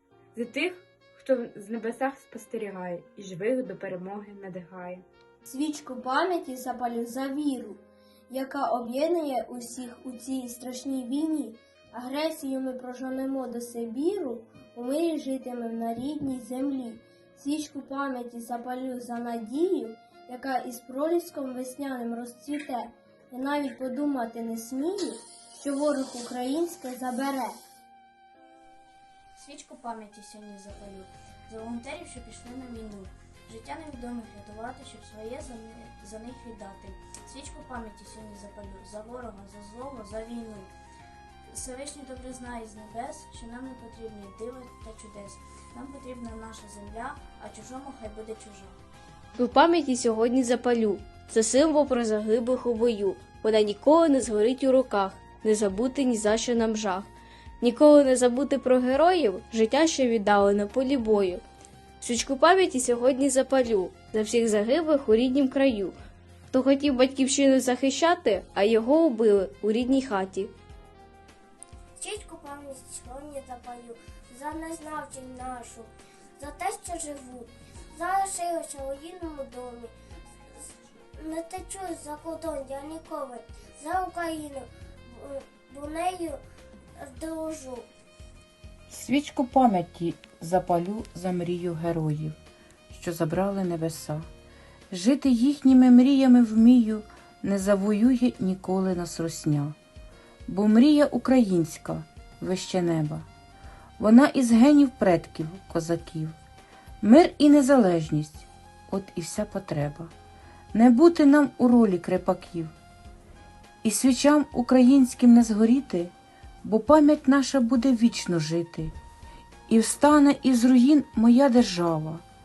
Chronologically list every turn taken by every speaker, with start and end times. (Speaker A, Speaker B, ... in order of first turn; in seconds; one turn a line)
Speaker A: 0.3-5.0
Speaker B: 5.4-27.6
Speaker C: 29.4-40.7
Speaker C: 41.5-48.8
Speaker D: 49.4-61.4
Speaker D: 62.0-66.0
Speaker D: 66.5-70.5
Speaker E: 72.0-79.9
Speaker E: 80.5-86.4
Speaker E: 87.0-87.9
Speaker F: 88.9-92.4
Speaker F: 92.9-94.3
Speaker F: 94.9-99.8
Speaker F: 100.5-103.3
Speaker F: 104.0-106.3
Speaker F: 107.0-110.1
Speaker F: 110.7-112.7
Speaker F: 113.8-118.9
Speaker F: 119.7-122.2